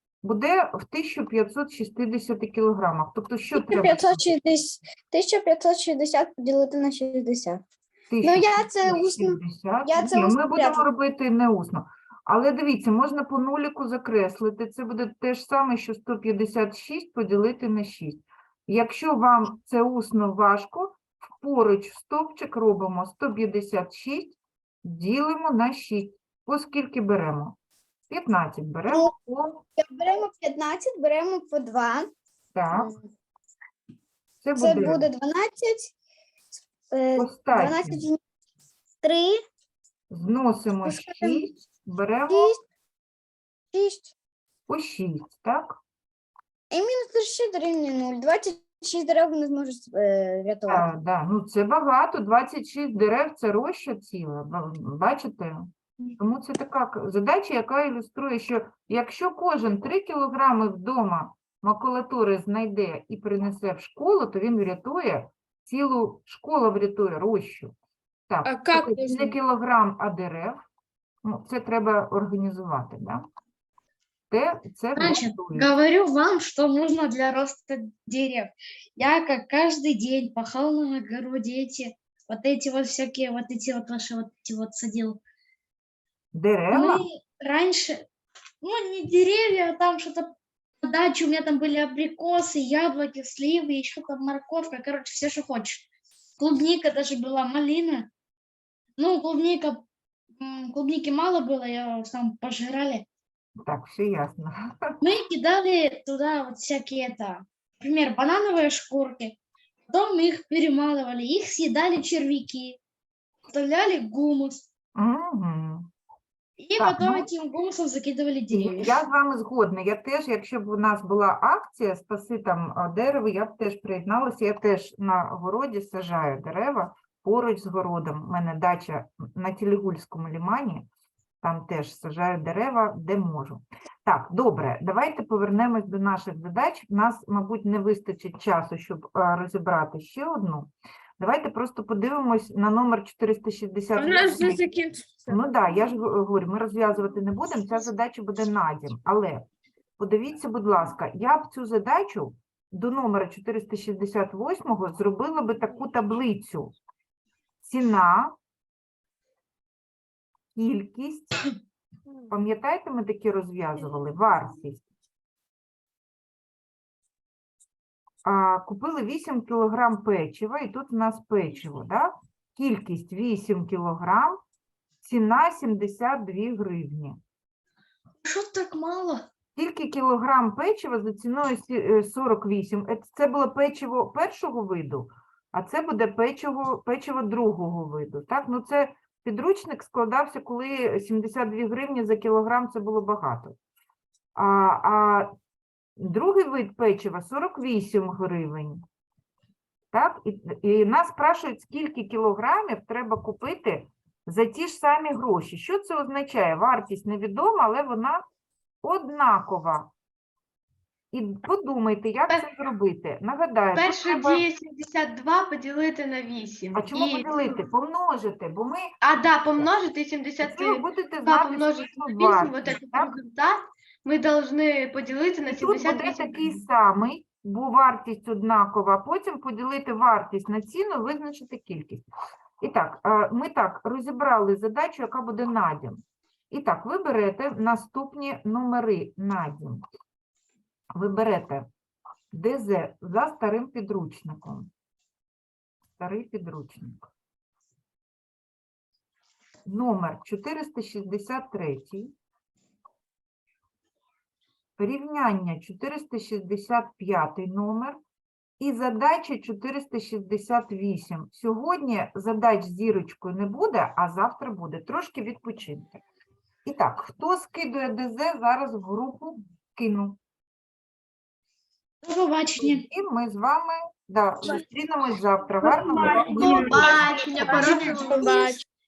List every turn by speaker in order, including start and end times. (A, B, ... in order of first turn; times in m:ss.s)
0:00.2-0:04.3 A
0:03.5-0:07.6 B
0:08.1-0:27.6 A
0:08.2-0:10.8 B
0:28.1-0:29.6 A
0:28.9-0:29.1 B
0:29.8-0:32.1 B
0:32.5-0:32.9 A
0:32.7-0:33.1 B
0:34.4-0:35.1 A
0:34.6-0:35.9 B
0:36.9-0:38.2 B
0:37.2-0:38.0 A
0:39.0-0:39.4 B
0:40.1-0:42.5 A
0:40.8-0:41.4 B
0:42.3-0:42.6 B
0:43.7-0:44.1 B
0:44.7-0:45.8 A
0:46.7-0:50.9 B
0:50.7-1:07.7 A
1:08.3-1:10.6 A
1:08.4-1:09.3 C
1:11.2-1:13.3 A
1:14.3-1:15.7 A
1:14.9-1:25.2 D
1:26.3-1:27.0 A
1:26.7-1:28.1 D
1:28.6-1:35.9 D
1:36.4-1:38.1 D
1:39.0-1:39.8 D
1:40.4-1:43.0 D
1:43.6-1:44.9 A
1:45.0-1:49.4 D
1:49.9-1:52.8 D
1:53.5-1:54.7 D
1:55.0-1:55.9 A
1:56.6-1:59.0 D
1:56.8-1:57.3 A
1:58.5-2:10.8 A
2:11.4-2:24.6 A
2:24.0-2:25.4 C
2:25.3-2:36.7 A
2:37.6-2:38.4 A
2:40.6-2:41.4 A
2:42.3-2:44.8 A
2:48.2-2:54.4 A
2:55.0-2:57.2 A
2:58.2-2:59.2 D
2:59.6-3:13.6 A
3:14.4-3:15.3 A
3:16.0-3:18.8 A
3:19.9-3:28.2 A
3:28.8-3:29.9 A
3:31.1-3:34.4 A
3:33.7-3:37.6 E
3:36.7-3:39.0 A
3:39.0-3:46.6 E
3:40.4-3:43.1 A
3:45.5-3:52.0 A
3:52.6-3:59.8 A
4:00.9-4:01.7 A
4:02.3-4:04.7 A
4:06.0-4:07.0 A
4:09.6-4:12.1 A
4:14.8-4:18.0 A
4:18.6-4:26.0 A
4:26.6-4:30.2 A
4:32.0-4:32.8 D
4:32.6-4:37.7 A
4:35.7-4:38.6 C
4:36.0-4:38.6 D
4:36.3-4:38.3 E